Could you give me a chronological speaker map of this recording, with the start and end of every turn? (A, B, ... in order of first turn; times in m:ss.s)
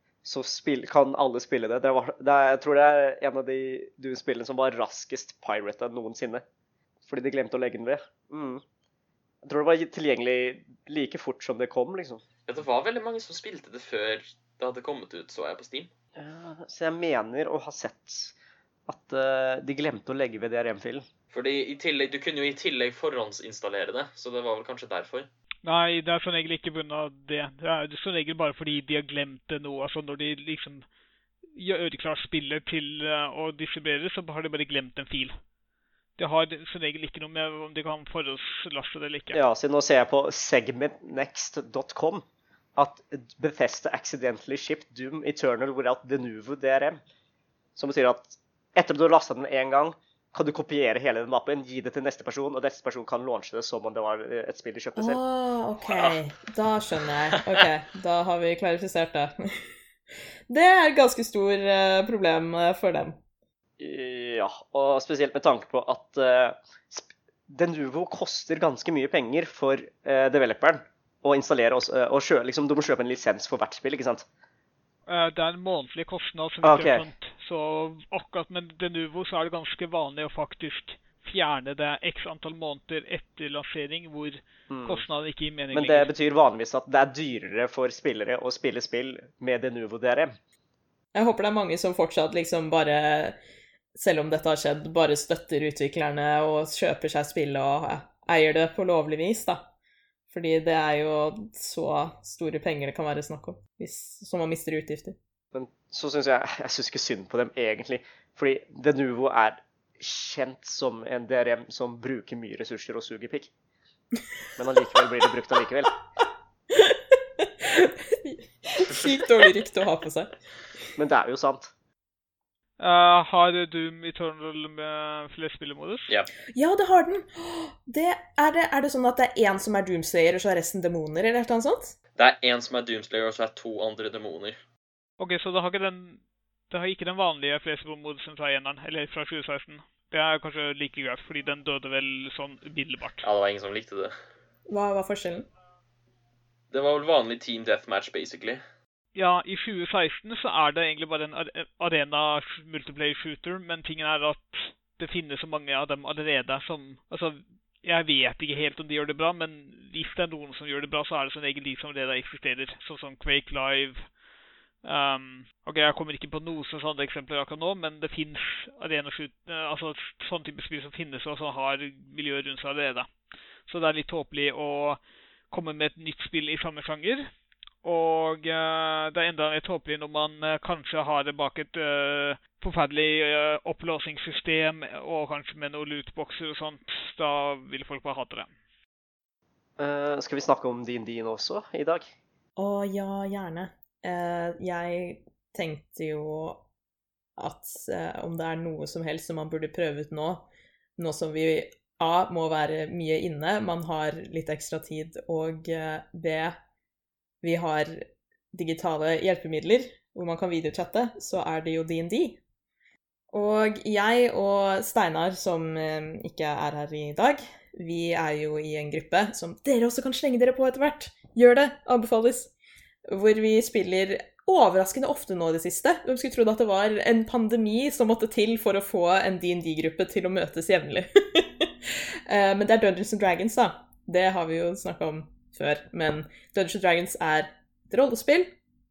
0:00.2-0:06.4 A
0:07.0-0:08.6 A
0:09.4-0:12.2 A
0:12.5-0:15.9 B
0:16.2-0:18.4 A
0:18.9-0:21.1 A
0:21.3-0:25.3 B
0:25.6-0:30.8 C
0:31.5-0:35.4 C
0:36.2-0:39.4 C
0:39.3-0:42.2 A
0:42.8-0:47.0 A
0:47.8-0:55.2 A
0:55.0-0:59.7 D
0:57.3-0:57.6 B
1:00.5-1:03.2 D
1:03.8-1:14.2 A
1:15.1-1:26.1 C
1:16.6-1:17.0 A
1:24.7-1:25.0 A
1:25.7-1:30.4 A
1:31.1-1:33.4 D
1:33.9-1:39.6 D
1:40.3-1:45.2 D
1:45.5-1:53.5 A
1:54.6-1:56.0 A
1:56.7-2:00.3 D
2:01.0-2:01.7 A
2:02.8-2:06.1 C
2:06.5-2:11.9 D
2:12.2-2:14.6 B
2:15.2-2:23.2 C
2:23.2-2:24.1 B
2:24.7-2:25.5 D
2:26.7-2:28.6 B
2:29.1-2:44.0 C
2:44.8-2:53.1 C
2:53.7-2:57.3 C
2:57.8-3:08.5 C
3:09.8-3:12.1 A
3:12.6-3:16.6 D
3:17.4-3:26.6 D
3:27.4-3:32.4 D
3:33.3-3:42.5 D
3:43.1-3:58.5 D